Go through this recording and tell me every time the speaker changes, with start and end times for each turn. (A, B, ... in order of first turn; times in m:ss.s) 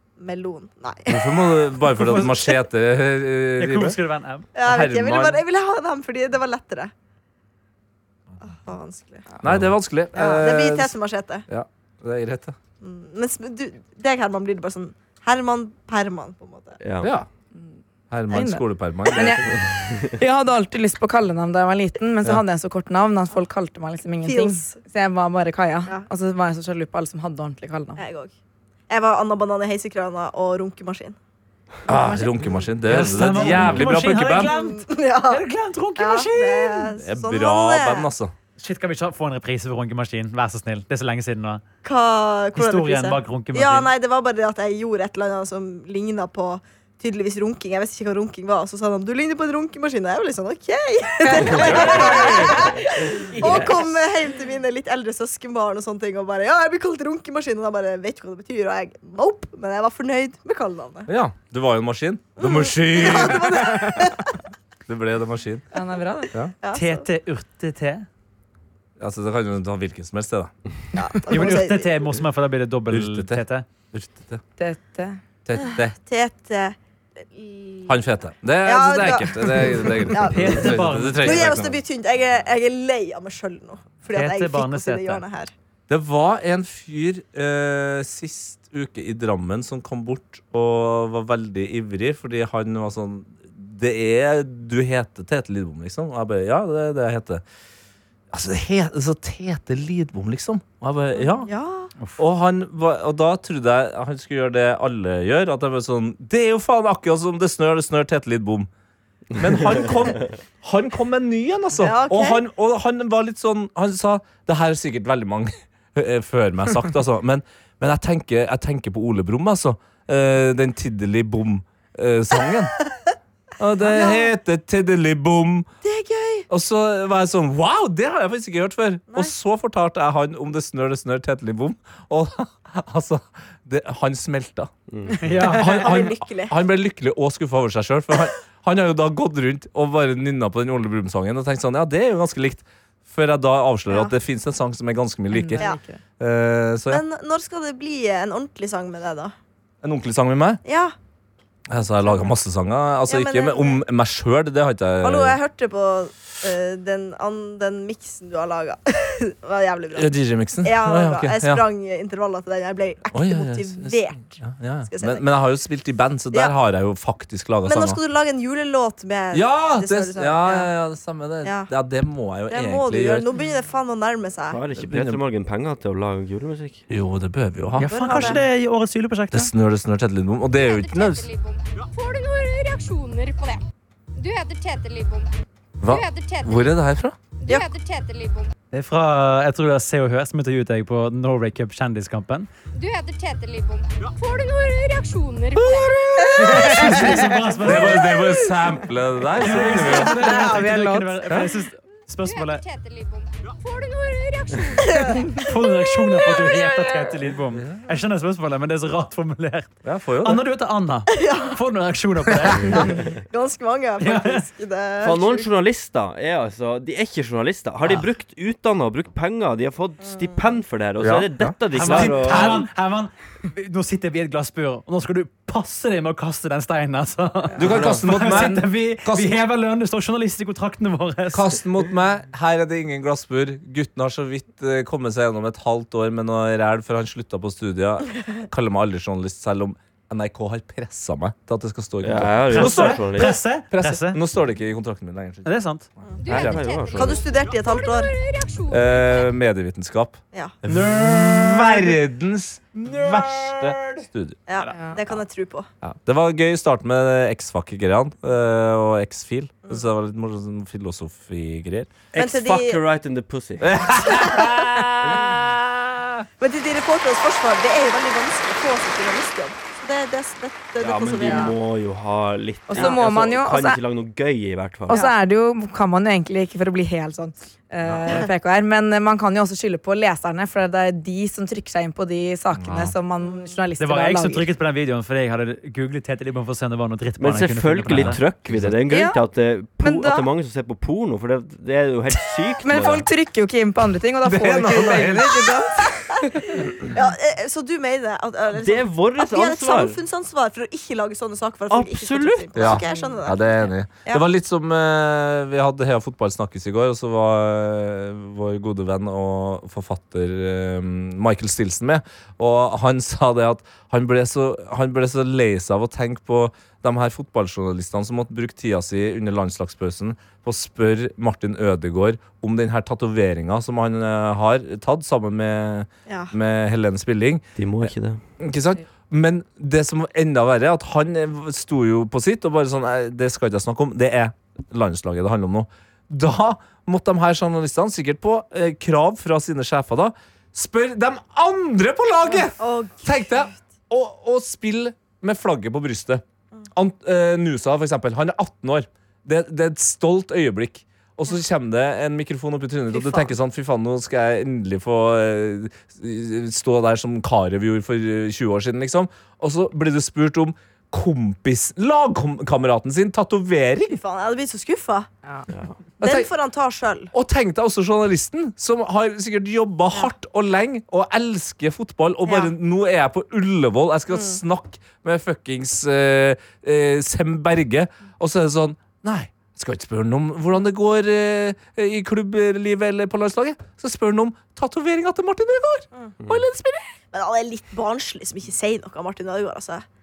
0:00.2-0:01.6 A
0:01.1-0:04.0 B
0:02.0-0:02.5 C
0:03.6-0:04.5 C
0:04.5-0:06.9 A
0:04.6-0:05.4 B
0:08.4-0:09.2 A
0:09.4-0:10.9 B
0:10.1-0:11.4 A
0:11.5-0:12.6 B
0:12.8-0:16.8 A
0:16.8-0:17.1 D
0:17.0-0:17.3 B
0:18.1-0:19.6 B
0:18.3-0:28.0 E
0:19.4-0:20.1 D
0:24.2-0:24.8 A
0:28.0-0:28.3 A
0:28.9-0:31.2 A
0:31.9-0:34.5 B
0:32.9-0:36.9 C
0:34.3-0:35.4 A
0:36.0-0:38.1 A
0:37.0-0:38.3 B
0:38.6-0:41.6 C
0:41.8-1:01.1 A
0:42.5-0:43.9 C
0:51.3-0:52.4 E
0:51.5-0:52.5 B
1:01.1-1:04.0 B
1:02.4-1:04.4 A
1:04.9-1:05.6 B
1:05.7-1:06.3 E
1:06.6-1:07.0 A
1:06.7-1:08.1 C
1:09.0-1:10.5 B
1:10.9-1:11.9 A
1:11.3-1:13.6 C
1:12.9-1:14.4 B
1:14.6-1:15.2 E
1:15.4-1:16.0 B
1:16.0-1:18.0 A
1:17.9-1:21.8 B
1:18.6-1:25.5 A
1:20.2-1:21.5 C
1:24.1-1:25.2 C
1:25.9-1:37.4 B
1:38.3-1:41.5 B
1:41.1-1:41.9 A
1:42.2-1:48.7 B
1:49.4-2:02.8 B
1:51.8-1:52.4 A
2:03.6-2:05.7 B
2:03.8-2:04.3 A
2:05.8-2:06.4 A
2:06.5-2:14.7 B
2:14.9-2:15.3 D
2:15.2-2:15.8 C
2:15.4-2:25.7 B
2:15.6-2:16.6 A
2:23.9-2:24.1 A
2:25.3-2:26.0 E
2:26.2-2:27.0 B
2:26.9-2:29.3 A
2:29.8-2:30.6 B
2:30.6-2:30.9 A
2:31.7-2:35.4 B
2:33.1-2:33.8 A
2:35.0-2:40.1 A
2:39.9-2:41.6 B
2:40.6-2:45.2 A
2:43.1-2:48.0 B
2:47.6-2:50.7 A
2:49.3-2:53.3 B
2:51.4-2:51.7 A
2:52.5-2:54.6 A
2:54.5-2:56.8 D
2:54.8-2:55.2 B
2:56.9-2:58.4 B
2:57.8-2:59.5 C
2:57.9-2:58.4 A
2:59.3-3:01.2 B
3:00.6-3:03.6 F
3:04.2-3:05.3 F
3:05.8-3:07.2 B
3:05.8-3:06.7 F
3:07.4-3:08.5 F
3:08.7-3:12.5 C
3:12.7-3:16.1 F
3:15.6-3:20.3 B
3:16.4-3:18.1 C
3:16.8-3:17.2 E
3:19.4-3:22.6 C
3:19.7-3:21.4 E
3:22.2-3:25.3 F
3:24.8-3:25.2 A
3:25.4-3:33.0 C
3:27.5-3:27.8 B
3:29.8-3:30.4 B
3:31.1-3:31.5 A
3:32.8-3:33.0 D
3:32.8-3:35.5 A
3:34.0-3:34.4 C
3:35.0-3:42.6 D
3:41.0-3:42.6 B
3:41.7-3:51.6 C
3:47.6-3:49.4 B
3:47.6-3:48.0 D
3:51.3-4:05.5 B
4:02.0-4:03.4 D
4:02.5-4:04.2 C
4:05.4-4:05.9 C
4:06.2-4:09.3 F
4:06.2-4:06.8 B
4:06.3-4:07.2 D
4:06.9-4:08.1 A
4:08.7-4:14.4 B
4:10.7-4:12.0 C
4:12.8-4:14.0 C
4:14.5-4:15.7 A
4:15.8-4:22.0 B
4:22.1-4:23.8 D
4:22.1-4:22.8 A
4:23.6-4:26.2 B
4:24.2-4:24.5 A
4:26.4-4:31.5 A
4:30.8-4:35.0 D
4:31.2-4:31.5 E
4:32.7-4:33.8 E
4:34.9-4:44.5 E
4:37.8-4:38.1 B
4:42.5-4:42.9 B
4:43.8-4:48.2 C
4:47.2-4:53.1 D
4:47.9-4:48.8 B
4:48.9-4:49.2 E
4:49.8-4:50.3 E
4:52.6-4:56.7 E
4:54.2-4:55.7 B
4:56.9-5:04.2 A
4:58.5-5:00.0 D
5:01.7-5:02.8 D
5:02.6-6:04.0 B
5:26.1-5:26.3 A
5:27.6-5:28.2 D
5:42.3-5:43.5 A
5:52.9-5:53.3 A
6:03.9-6:05.1 A
6:06.0-6:06.3 B
6:06.0-6:07.1 A
6:07.1-6:26.9 B
6:12.2-6:12.5 A
6:14.1-6:14.4 A
6:27.1-6:29.8 A